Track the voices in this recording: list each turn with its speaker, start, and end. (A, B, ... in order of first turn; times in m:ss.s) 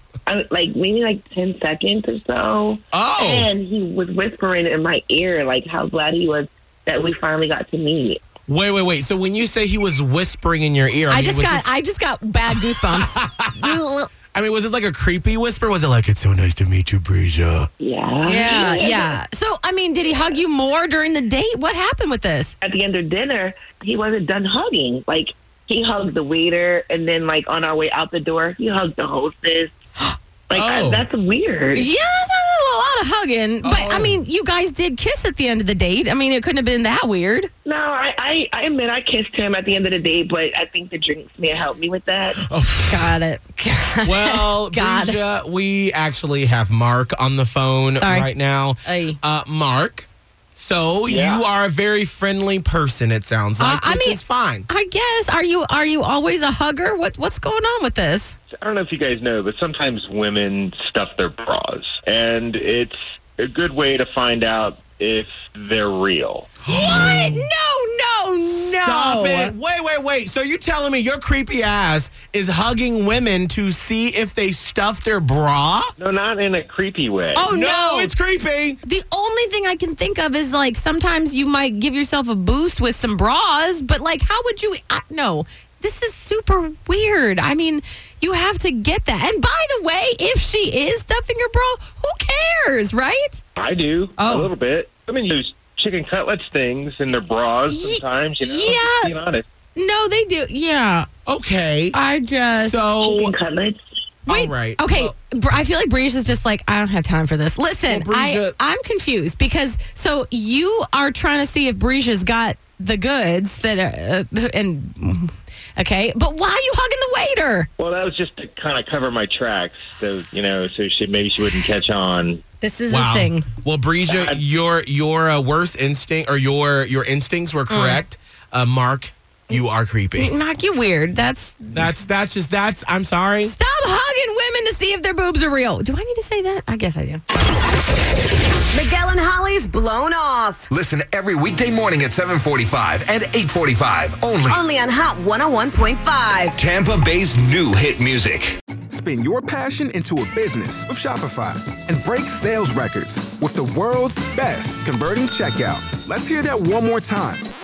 0:00.2-0:08.2 A
0:02.9-0:03.5 B
0:08.5-0:11.7 B
0:11.1-0:14.1 C
0:12.9-0:13.7 B
0:14.3-0:17.7 B
0:17.8-0:19.2 A
0:18.2-0:22.5 C
0:22.6-0:29.7 A
0:30.5-0:31.9 A
0:30.5-0:31.1 B
0:31.7-0:37.5 C
0:33.6-0:34.2 B
0:37.6-0:42.4 A
0:42.3-0:43.2 B
0:42.9-0:45.2 C
0:44.0-0:54.7 B
0:48.0-0:48.3 C
0:48.8-0:49.2 C
0:51.0-0:51.5 D
0:53.6-0:58.4 C
0:58.5-1:06.5 D
1:06.7-1:07.5 B
1:06.7-1:09.5 C
1:08.4-1:15.9 B
1:16.0-1:17.4 D
1:17.3-1:18.1 C
1:17.4-1:18.8 B
1:18.8-1:33.4 C
1:33.6-1:39.5 D
1:34.2-1:34.5 C
1:37.7-1:39.1 C
1:39.8-1:41.1 C
1:41.3-1:42.0 B
1:41.9-1:42.9 C
1:42.5-1:43.3 B
1:43.0-1:43.8 A
1:44.3-1:57.7 C
1:44.3-1:45.1 B
1:47.9-1:48.6 B
1:57.8-2:02.4 D
2:02.6-2:03.5 C
2:02.9-2:10.3 B
2:04.0-2:04.4 D
2:07.7-2:08.0 C
2:10.2-2:11.9 C
2:11.7-2:13.5 B
2:13.4-2:17.2 C
2:18.7-2:20.6 E
2:20.7-2:24.6 F
2:24.5-2:26.6 E
2:26.6-2:28.6 F
2:28.9-2:37.5 G